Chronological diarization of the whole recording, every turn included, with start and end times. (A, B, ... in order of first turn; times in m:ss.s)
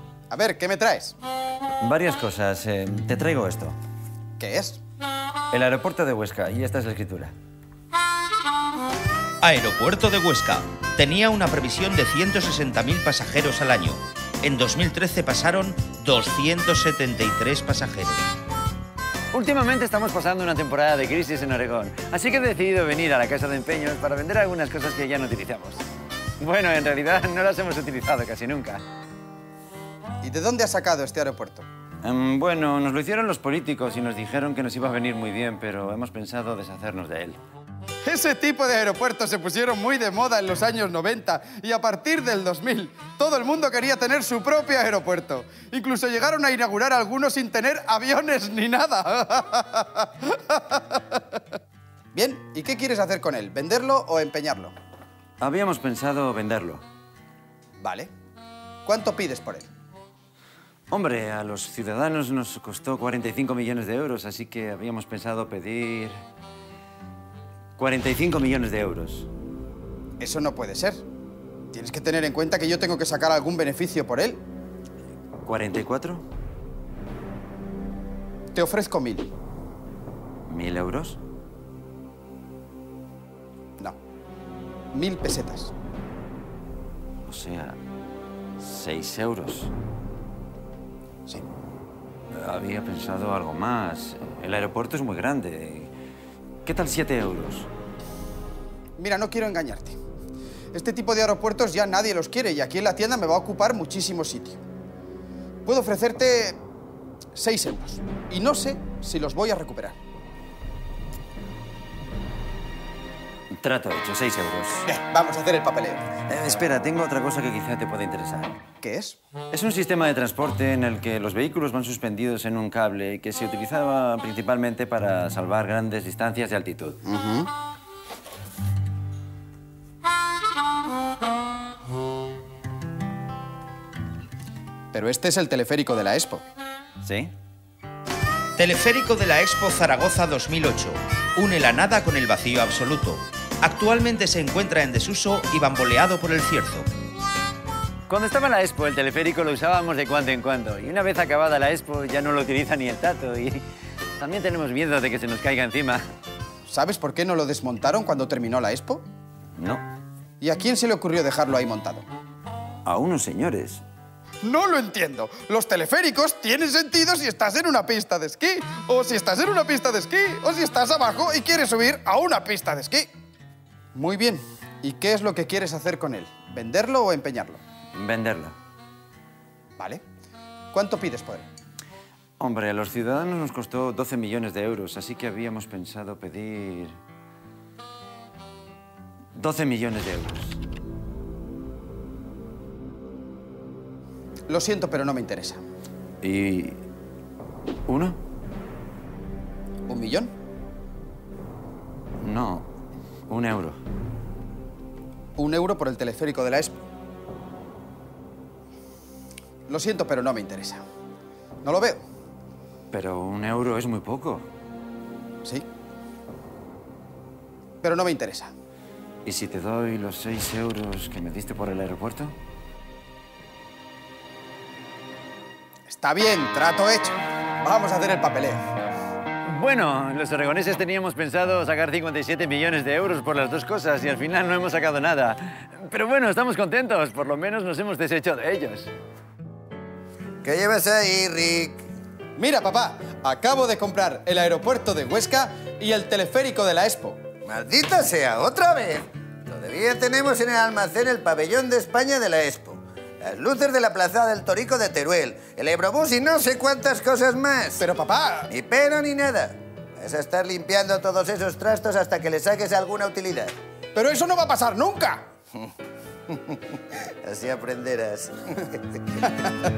0:00.3-0:01.1 A
0:01.8-0:03.8 B
0:04.4-0:04.8 A
0:05.5-0:07.3 B
0:09.4-0:18.2 C
0:19.3-0:25.8 B
0:26.4-0:28.8 B
0:30.2-0:31.6 A
0:32.0-0:37.4 B
0:38.0-0:51.2 A
0:52.1-0:54.7 A
0:55.4-0:56.8 B
0:57.8-0:58.1 A
0:58.8-0:59.7 A
1:00.9-1:06.2 B
1:07.8-1:09.3 B
1:10.2-1:11.0 A
1:11.7-1:14.4 A
1:15.4-1:16.2 B
1:18.5-1:19.3 A
1:20.5-1:21.2 B
1:24.9-1:25.7 A
1:27.2-1:27.8 B
1:28.6-1:29.7 B
1:32.3-1:35.9 B
1:36.6-1:37.7 B
1:39.0-1:40.0 A
1:40.7-1:44.6 A
1:45.6-1:46.6 A
1:47.3-1:50.0 A
1:53.6-1:54.9 B
1:54.9-1:56.0 A
1:56.3-1:58.6 B
1:58.8-1:59.2 A
1:59.5-2:07.0 B
2:07.0-2:07.5 A
2:14.9-2:16.4 A
2:17.0-2:17.3 B
2:18.6-2:26.9 C
2:28.1-2:33.6 B
2:34.2-2:36.0 B
2:36.7-2:39.0 A
2:39.6-2:39.8 B
2:40.4-2:42.0 A
2:42.8-2:43.8 B
2:44.4-2:53.1 A
2:53.9-2:57.6 A
2:57.9-2:58.5 B
3:00.7-3:01.4 A
3:02.4-3:06.9 B
3:09.4-3:10.6 B
3:14.5-3:15.6 A
3:16.2-3:16.8 B
3:17.9-3:18.2 B
3:19.9-3:20.3 A
3:22.2-3:22.7 B
3:23.3-3:23.8 B
3:25.4-3:26.7 A
3:29.7-3:30.8 A
3:31.6-3:32.0 A
3:32.9-3:34.4 B
3:37.8-3:38.5 A
3:39.2-3:42.3 B
3:45.9-3:48.6 A
3:49.4-3:58.9 B
4:00.4-4:01.8 D
4:02.4-4:07.2 A
4:07.4-4:17.8 D
4:17.8-4:18.5 A
4:18.5-4:23.5 D
4:23.9-4:25.2 A
4:26.5-4:29.3 D